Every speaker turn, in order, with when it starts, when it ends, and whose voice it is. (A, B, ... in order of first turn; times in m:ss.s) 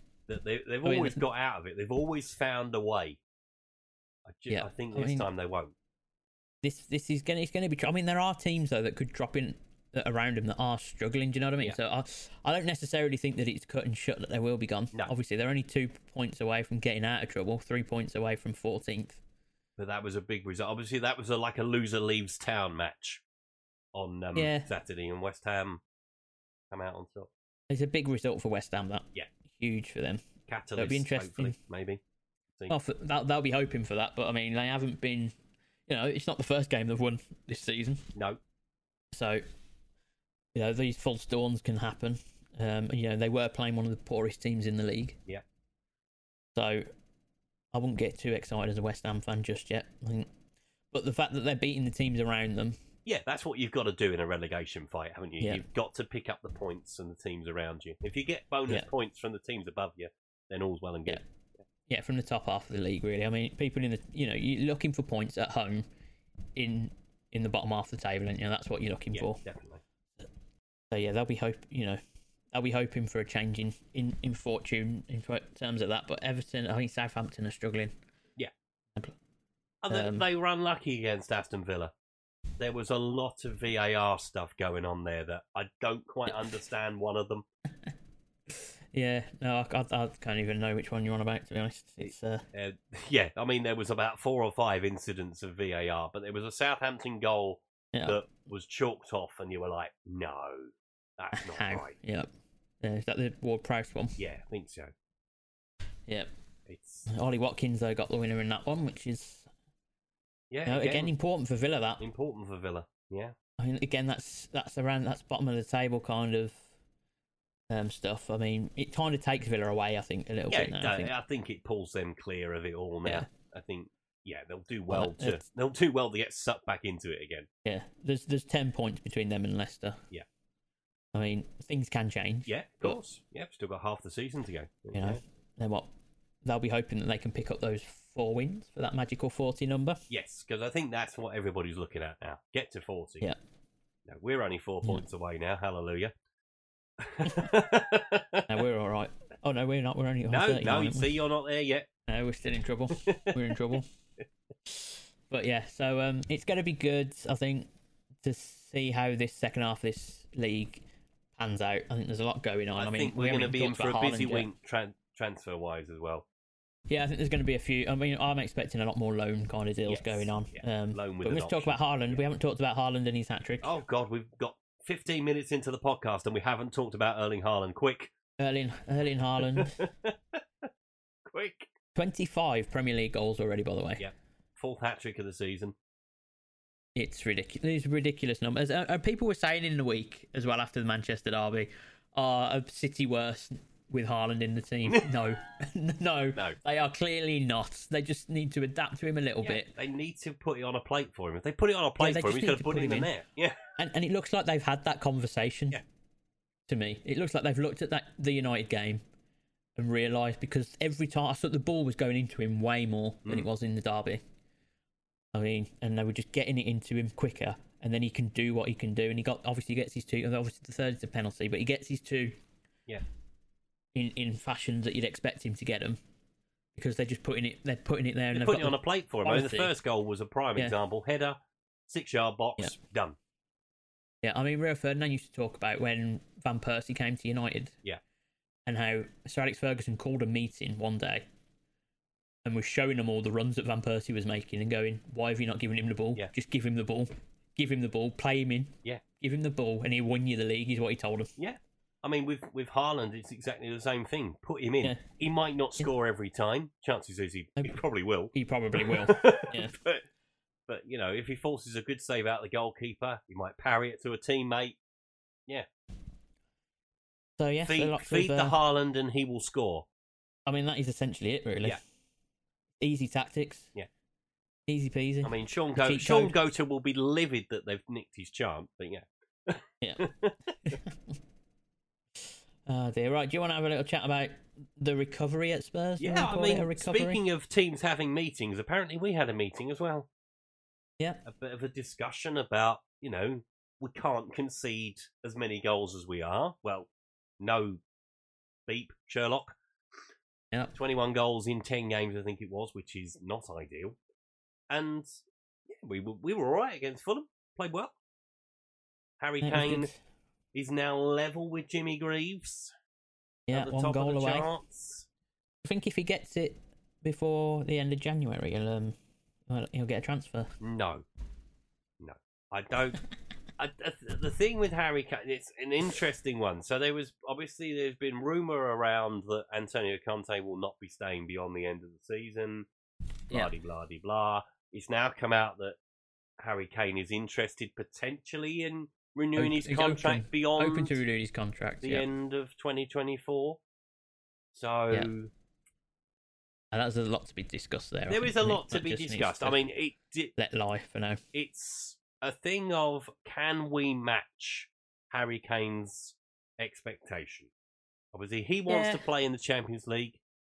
0:00.3-0:03.2 A
0:00.8-0:01.2 B
0:04.3-0:05.7 A
0:04.5-0:05.3 B
0:06.6-0:19.2 B
0:19.8-0:23.2 A
0:23.9-0:25.8 A
0:24.4-0:24.7 B
0:26.7-0:27.3 A
0:27.7-0:31.6 B
0:30.5-0:32.0 A
0:32.7-0:35.3 B
0:35.9-0:38.1 B
0:38.2-0:38.4 A
0:39.1-0:39.4 B
0:40.6-0:45.2 B
0:46.6-0:46.9 B
0:47.7-0:50.3 B
0:50.9-0:52.8 B
0:53.0-1:01.2 A
1:01.9-1:05.9 B
1:06.6-1:09.4 B
1:09.1-1:09.8 A
1:10.9-1:12.0 B
1:12.5-1:17.9 B
1:19.8-1:21.9 A
1:19.9-1:20.3 B
1:22.6-1:27.4 A
1:28.5-1:32.4 B
1:32.5-1:41.9 A
1:37.9-1:38.2 B
1:41.3-1:42.3 B
1:42.8-1:44.2 B
1:44.2-1:44.9 A
1:46.7-1:47.1 A
1:47.1-1:49.5 B
1:50.5-1:51.1 A
1:50.7-1:52.0 B
1:52.0-1:53.4 A
1:53.6-1:56.7 B
1:57.7-2:01.1 B
2:00.5-2:07.5 A
2:04.9-2:05.4 B
2:07.6-2:10.0 B
2:11.1-2:13.0 B
2:12.5-2:15.2 A
2:14.9-2:15.9 B
2:16.4-2:20.0 B
2:20.1-2:23.3 A
2:24.1-2:26.1 A
2:27.0-2:28.5 A
2:28.5-2:31.2 B
2:30.3-2:31.9 A
2:32.1-2:33.9 B
2:33.1-2:33.4 A
2:34.7-2:37.7 B
2:38.2-2:40.8 B
2:41.4-2:44.5 B
2:42.8-2:46.3 A
2:46.9-2:53.8 B
2:49.9-2:52.2 A
2:53.6-2:58.1 A
2:58.4-2:59.9 B
2:59.4-3:00.7 A
3:01.2-3:01.7 A
3:02.0-3:04.1 B
3:04.0-3:05.8 A
3:07.0-3:19.7 B
3:19.4-3:23.6 A
3:22.0-3:23.1 B
3:23.8-3:25.8 B
3:26.7-3:29.0 B
3:29.8-3:34.2 B
3:35.3-3:42.4 B
3:44.0-3:46.0 B
3:46.8-3:49.7 B
3:48.3-3:51.4 A
3:51.9-3:53.2 A
3:54.2-3:57.8 B
3:58.7-4:01.2 B
4:02.4-4:11.3 B
4:11.4-4:20.0 A
4:18.3-4:19.8 B
4:20.7-4:24.8 A
4:27.4-4:28.6 B
4:27.7-4:29.9 A
4:30.5-4:31.8 B
4:32.8-4:33.7 B
4:34.7-4:36.4 B
4:35.2-4:40.4 A
4:39.8-4:40.1 B
4:40.6-4:41.0 B
4:42.6-4:47.2 B
4:46.0-4:50.1 A
4:51.3-4:56.9 A
4:57.4-4:57.8 A
4:58.7-4:59.6 A
5:00.7-5:04.0 A
5:04.7-5:05.1 A
5:05.7-5:07.9 A
5:09.2-5:09.9 A
5:09.4-5:10.0 B
5:10.5-5:12.7 A
5:13.5-5:14.5 B
5:13.5-5:15.1 A
5:15.6-5:19.0 B
5:19.5-5:20.5 B
5:20.6-5:21.0 A
5:22.0-5:23.0 A
5:23.6-5:32.7 A
5:33.3-5:35.8 A
5:36.4-5:41.0 A
5:39.4-5:42.1 B
5:41.8-5:43.6 A
5:44.5-5:45.3 A
5:46.7-5:49.6 B
5:48.1-5:50.3 A
5:50.4-5:51.2 B
5:51.3-5:57.5 A
5:58.1-6:00.2 A
5:58.7-5:59.0 B